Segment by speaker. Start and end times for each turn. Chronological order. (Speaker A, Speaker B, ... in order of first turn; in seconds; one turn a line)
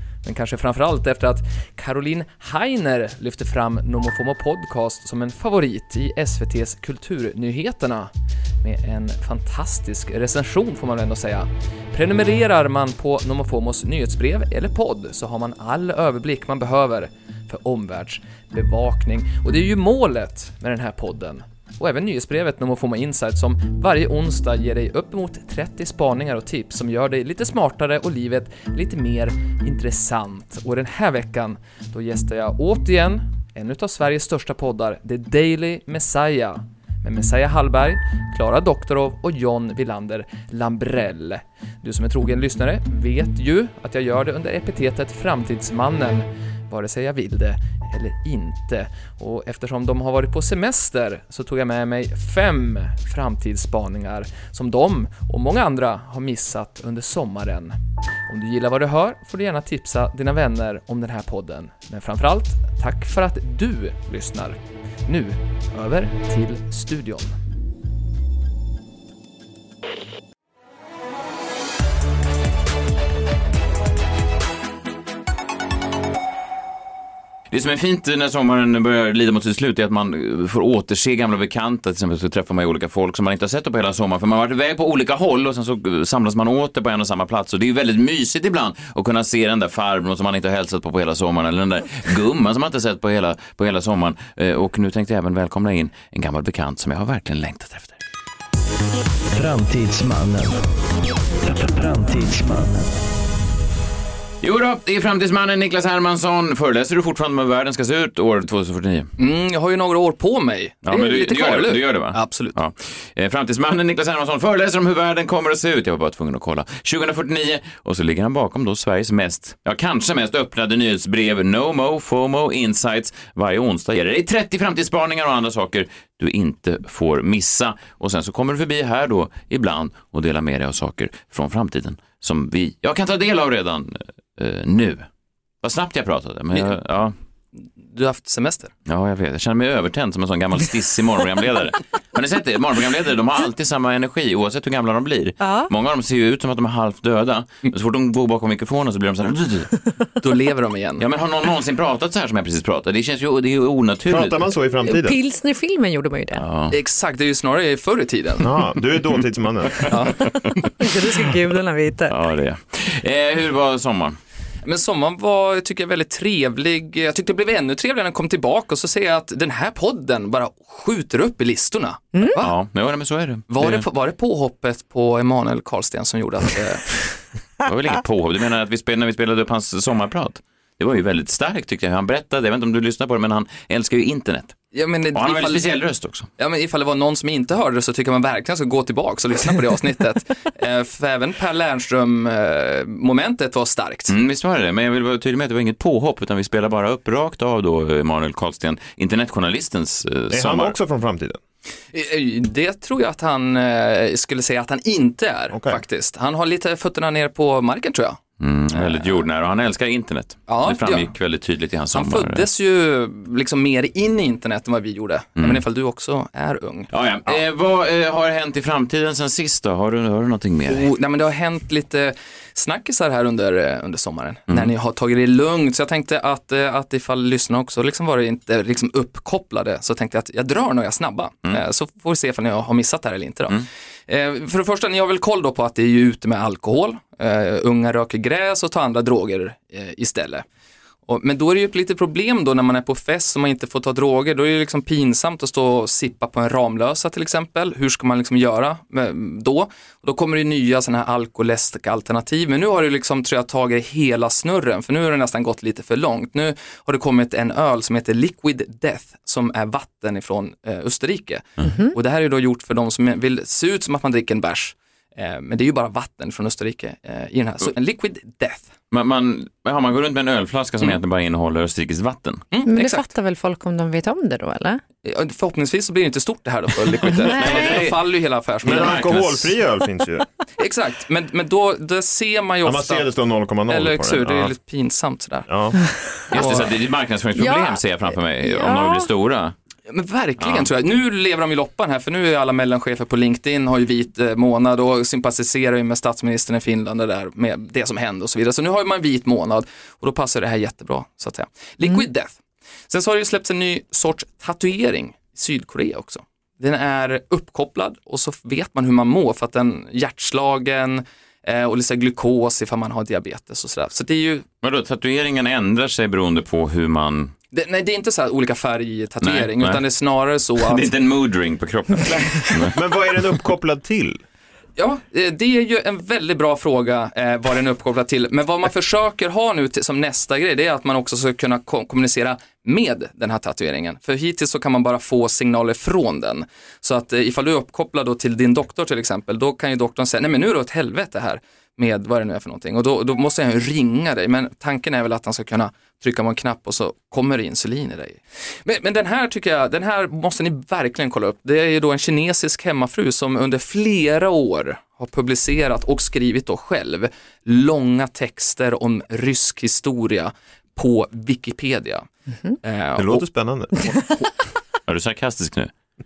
Speaker A: 0.2-8.1
Speaker A: 8.6-67.3
Speaker B: 77.5-98.0
Speaker C: 99.3-100.6
Speaker C: 101.4-102.9
Speaker B: 104.4-109.1
Speaker A: 109.2-112.6
Speaker B: 110.8-135.1
Speaker B: 135.6-137.1
Speaker A: 137.8-138.7
Speaker B: 138.8-149.9
Speaker D: 145.4-145.7
Speaker A: 150.2-151.0
Speaker B: 151.0-154.4
Speaker E: 154.1-155.2
Speaker D: 154.8-156.4
Speaker B: 156.3-156.8
Speaker A: 156.7-158.5
Speaker E: 158.4-159.9
Speaker A: 159.9-160.3
Speaker D: 160.3-162.2
Speaker B: 162.1-164.2
Speaker A: 164.6-172.6
Speaker B: 172.4-173.8
Speaker A: 173.5-177.0
Speaker B: 177.7-184.6
Speaker A: 184.7-185.8
Speaker B: 185.1-186.3
Speaker A: 186.4-194.2
Speaker B: 194.1-200.8
Speaker E: 200.3-201.4
Speaker A: 201.9-209.2
Speaker E: 205.5-205.8
Speaker B: 208.4-212.5
Speaker A: 210.5-211.1
Speaker A: 211.9-217.4
Speaker B: 215.4-215.6
Speaker B: 216.9-220.9
Speaker A: 220.7-240.4
Speaker A: 241.1-268.7
Speaker D: 261.6-261.9
Speaker B: 268.9-272.4
Speaker A: 272.5-273.1
Speaker D: 272.6-274.8
Speaker A: 275.0-279.1
Speaker D: 277.2-277.9
Speaker B: 277.2-278.0
Speaker B: 278.6-279.5
Speaker E: 278.6-280.3
Speaker A: 280.6-283.1
Speaker E: 282.6-284.5
Speaker A: 283.7-285.5
Speaker E: 285.5-285.8
Speaker B: 286.3-289.5
Speaker A: 286.3-286.7
Speaker D: 287.4-287.8
Speaker D: 288.4-289.1
Speaker A: 289.9-302.4
Speaker B: 290.4-290.7
Speaker A: 302.9-314.5
Speaker B: 314.6-317.3
Speaker A: 317.5-320.9
Speaker B: 319.2-319.8
Speaker B: 320.6-322.8
Speaker E: 322.7-324.2
Speaker A: 324.8-362.1
Speaker A: 362.6-363.2
Speaker E: 363.0-363.9
Speaker A: 363.8-364.3
Speaker B: 364.9-365.7